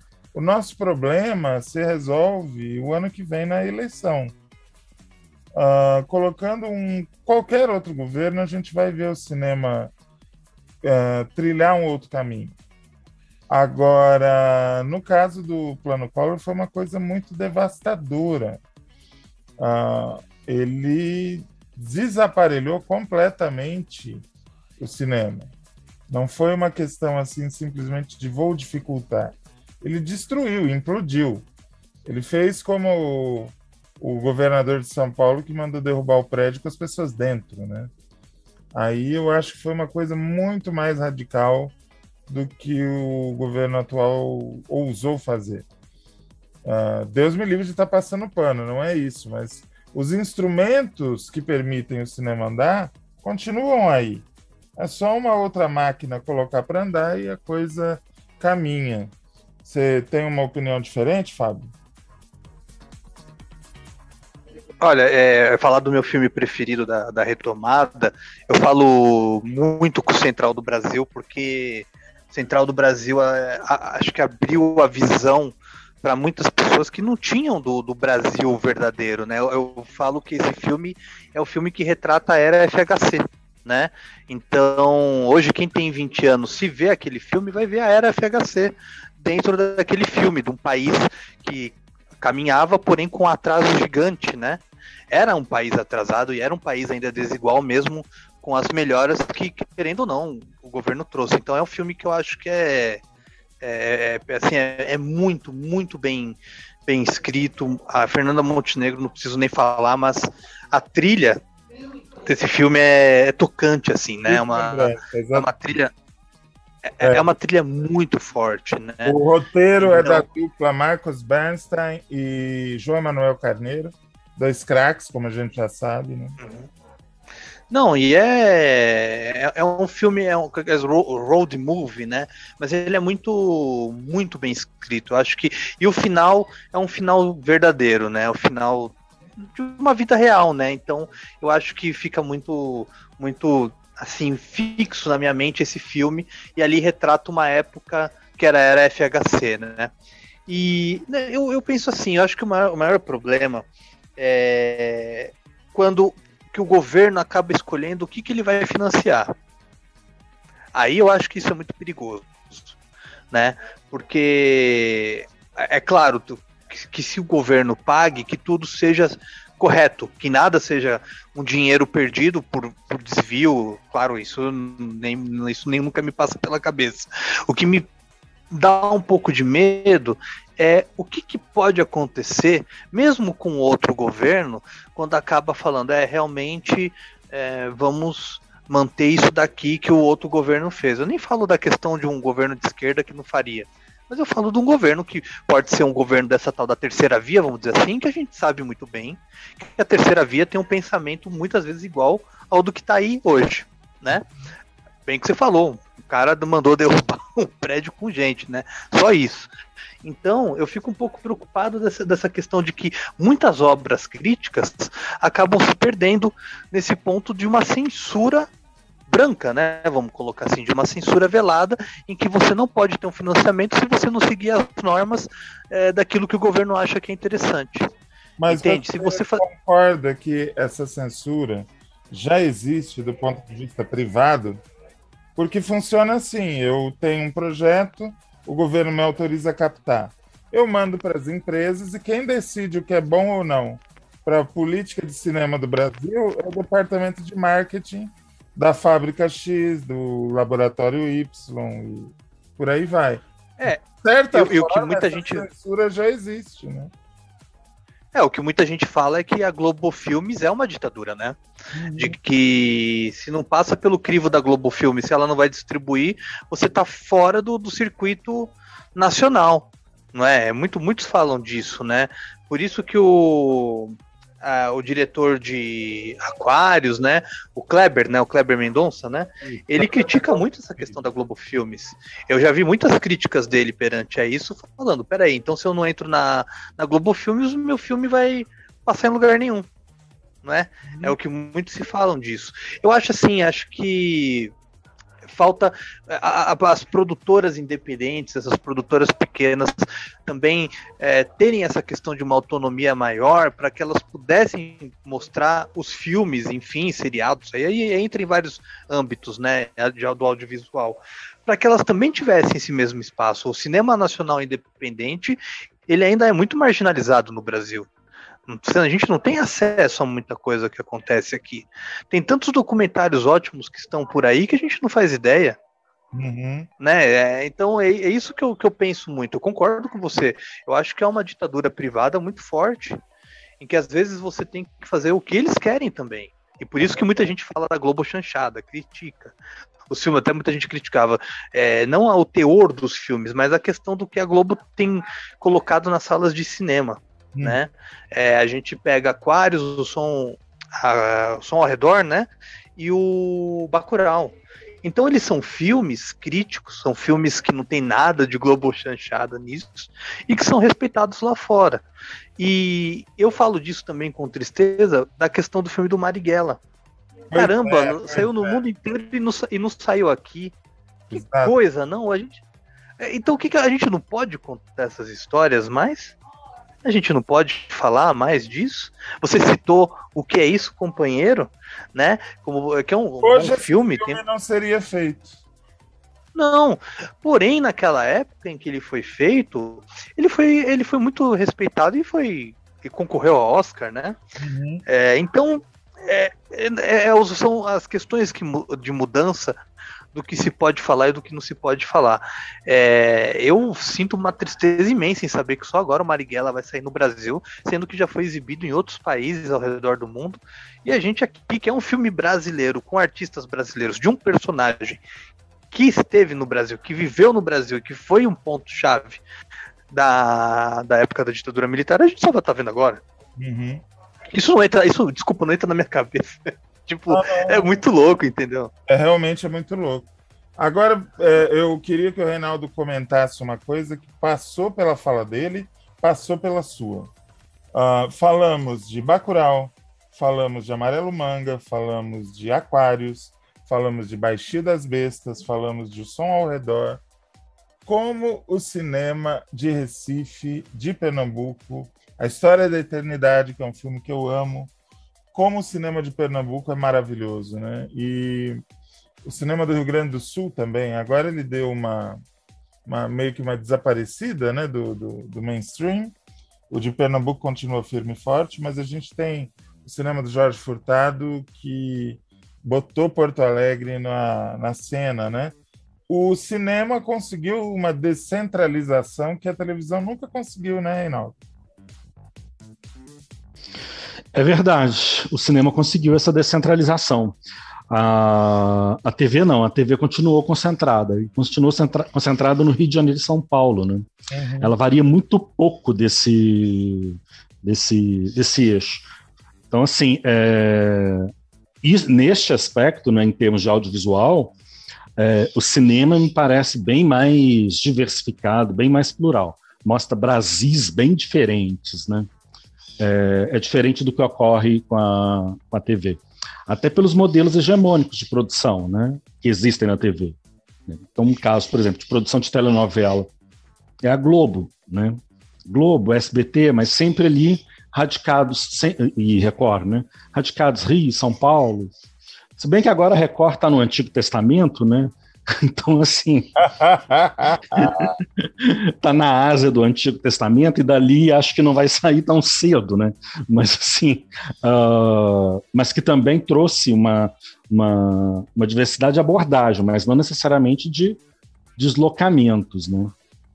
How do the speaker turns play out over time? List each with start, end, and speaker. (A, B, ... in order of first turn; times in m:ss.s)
0:00.3-0:04.3 A
0:05.5-0:09.9 A
0:10.8-0:12.6 A
0:13.5-0:18.6 A
0:19.6-0:24.2 A
0:24.8-0:25.5 A
0:26.1-0:31.5 A
0:32.0-0:37.9 A
0:38.7-0:41.7 A
0:42.3-0:45.6 A
0:46.6-0:59.1 A
0:59.6-1:01.7 A
1:04.8-1:43.0 B
1:43.6-1:51.4 B
1:52.2-1:55.9 B
1:54.3-1:55.5 A
1:57.0-1:59.2 B
1:57.0-1:57.2 A
1:59.0-2:06.4 A
1:59.8-2:00.2 B
2:06.4-2:06.7 B
2:07.7-2:29.9 B
2:30.5-2:33.6 B
2:34.2-2:39.3 B
2:40.7-2:42.7 B
2:43.3-2:57.9 B
2:58.5-3:24.3 B
3:25.1-3:29.5 B
3:30.0-3:38.5 B
3:39.1-3:47.9 B
3:48.4-3:54.6 A
3:48.5-3:49.4 B
3:55.4-4:16.9 A
4:13.6-4:15.4 B
4:18.1-4:21.4 B
4:21.7-4:22.2 A
4:22.0-4:49.7 B
4:39.5-4:41.0 A
4:50.4-4:54.5 B
4:50.9-4:51.1 A
4:55.3-5:17.9 B
5:18.5-5:25.6 B
5:26.1-5:26.7 A
5:26.8-5:33.0 B
5:33.6-5:39.4 B
5:39.9-6:01.8 B
6:02.4-6:06.6 B
6:07.3-6:08.6 A
6:07.3-6:10.5 B
6:11.1-6:11.5 A
6:11.1-6:12.4 B
6:13.0-6:16.1 B
6:16.8-6:24.2 B
6:23.2-6:25.4 A
6:26.3-6:34.2 B
6:34.4-6:34.8 A
6:34.9-6:39.6 B
6:40.1-6:55.0 B
6:55.7-6:59.2 B
6:59.9-7:03.0 B
7:03.4-7:03.8 A
7:04.3-7:08.7 B
7:07.1-7:07.8 A
7:08.9-7:17.1 A
7:17.7-7:27.0 A
7:27.8-7:34.7 A
7:35.3-7:38.6 A
7:39.2-7:42.2 A
7:42.8-7:46.1 A
7:46.7-7:55.5 A
7:56.1-8:01.4 A
8:04.3-8:07.4 C
8:07.9-8:14.1 C
8:14.3-8:14.7 A
8:14.6-8:19.0 C
8:19.7-8:21.3 C
8:21.8-8:24.5 C
8:25.2-8:32.3 C
8:33.0-8:40.4 C
8:40.9-8:43.3 C
8:44.0-8:51.9 C
8:52.6-8:56.5 C
8:56.6-8:58.1 A
8:57.8-9:11.2 C
9:11.8-9:13.1 C